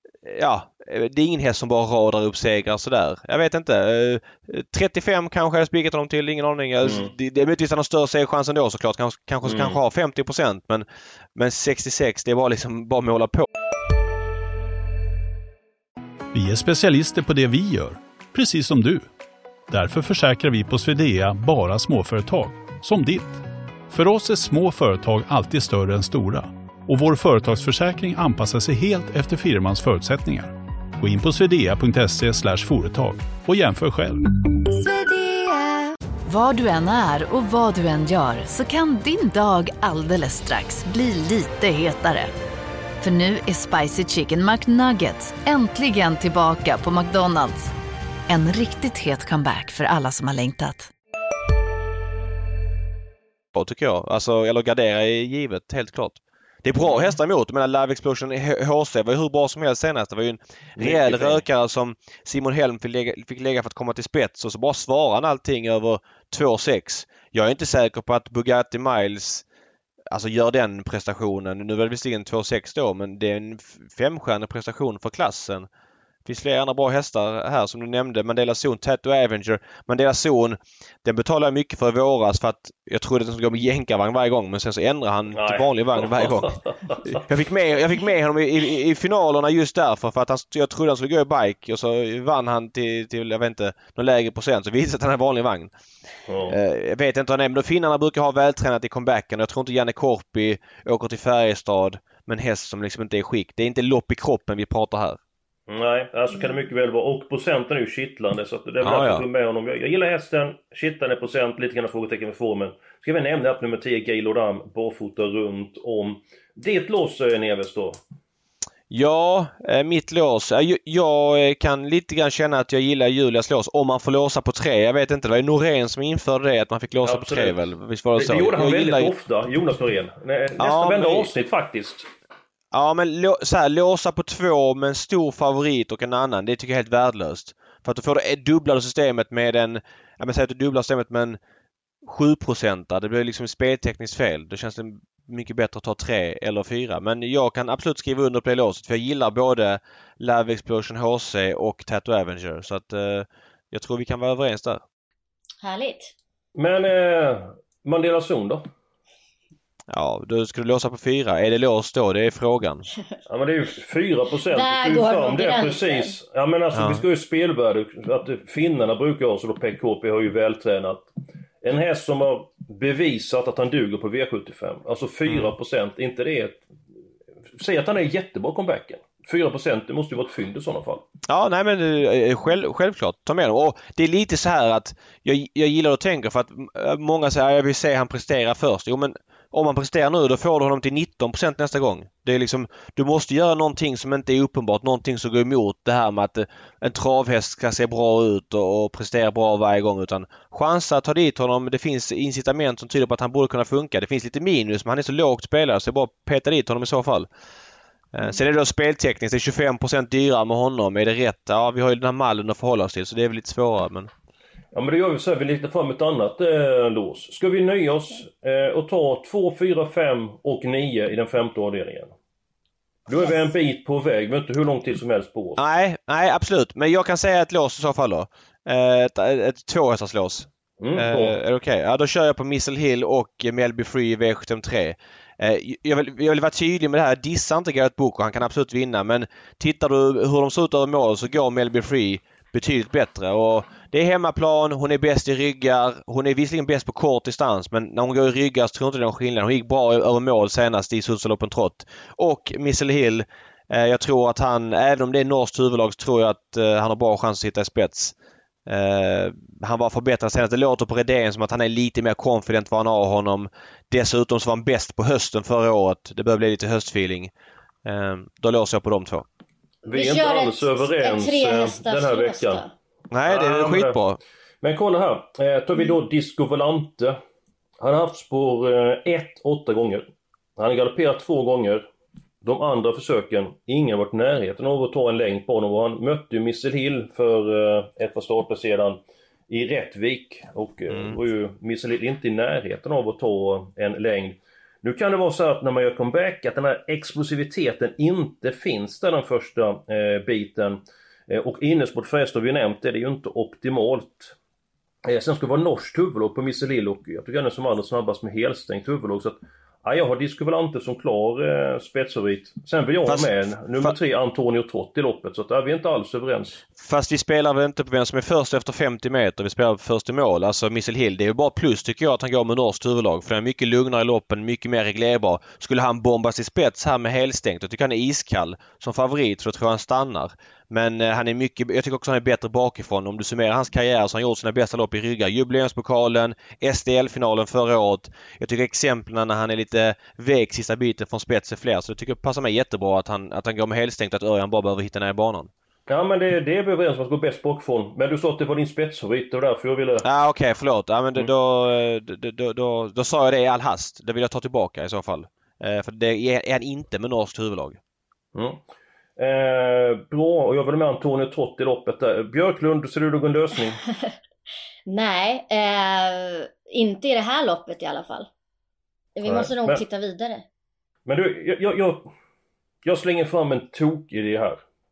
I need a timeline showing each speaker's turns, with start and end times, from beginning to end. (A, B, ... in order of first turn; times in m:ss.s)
0:00.2-0:13.5 A
0:06.8-0:07.1 B
0:09.4-0:09.8 B
0:16.3-0:19.1 C
0:19.7-0:34.2 C
0:34.6-0:42.3 D
0:43.0-0:47.7 D
0:48.3-0:50.9 D
0:53.6-1:09.4 A
0:56.9-0:57.1 B
1:00.8-1:01.4 B
1:10.1-1:15.7 A
1:16.2-1:35.7 A
1:25.3-1:27.2 B
1:36.3-1:36.6 B
1:36.5-1:45.2 A
1:45.7-1:58.0 B
1:48.8-1:49.2 A
1:58.9-2:09.1 A
2:07.0-2:07.6 B
2:08.2-2:12.1 B
2:10.6-2:11.3 A
2:12.7-2:21.4 A
2:22.0-2:34.8 A
2:35.6-2:36.1 E
2:36.6-2:38.6 B
2:39.9-2:42.9 A
2:43.3-2:51.1 B
2:44.5-2:46.2 E
2:46.7-2:47.0 A
2:51.6-2:56.6 B
2:55.3-2:55.5 A
2:57.6-3:01.0 B
3:01.3-3:27.3 A
3:28.1-3:34.1 A
3:34.7-3:42.1 B
3:43.1-3:45.6 B
3:45.6-4:18.2 A
3:50.8-3:51.4 B
4:18.7-4:27.3 A
4:27.8-4:29.3 A
4:29.9-4:32.6 B
4:29.9-4:32.7 E
4:33.1-4:34.2 A
4:33.3-4:34.0 B
4:34.6-4:37.2 B
4:37.8-4:41.9 B
4:42.4-5:04.4 B
4:50.9-4:51.2 A
5:05.0-5:16.6 B
5:13.1-5:13.9 A
5:16.8-5:45.5 A
5:45.9-5:50.0 B
5:50.0-5:57.8 A
5:58.3-5:58.6 B
5:59.2-6:03.8 B
6:04.9-6:08.3 E
6:09.2-6:10.4 E
6:09.2-6:09.8 B
6:11.1-6:12.1 B
6:12.8-6:14.6 B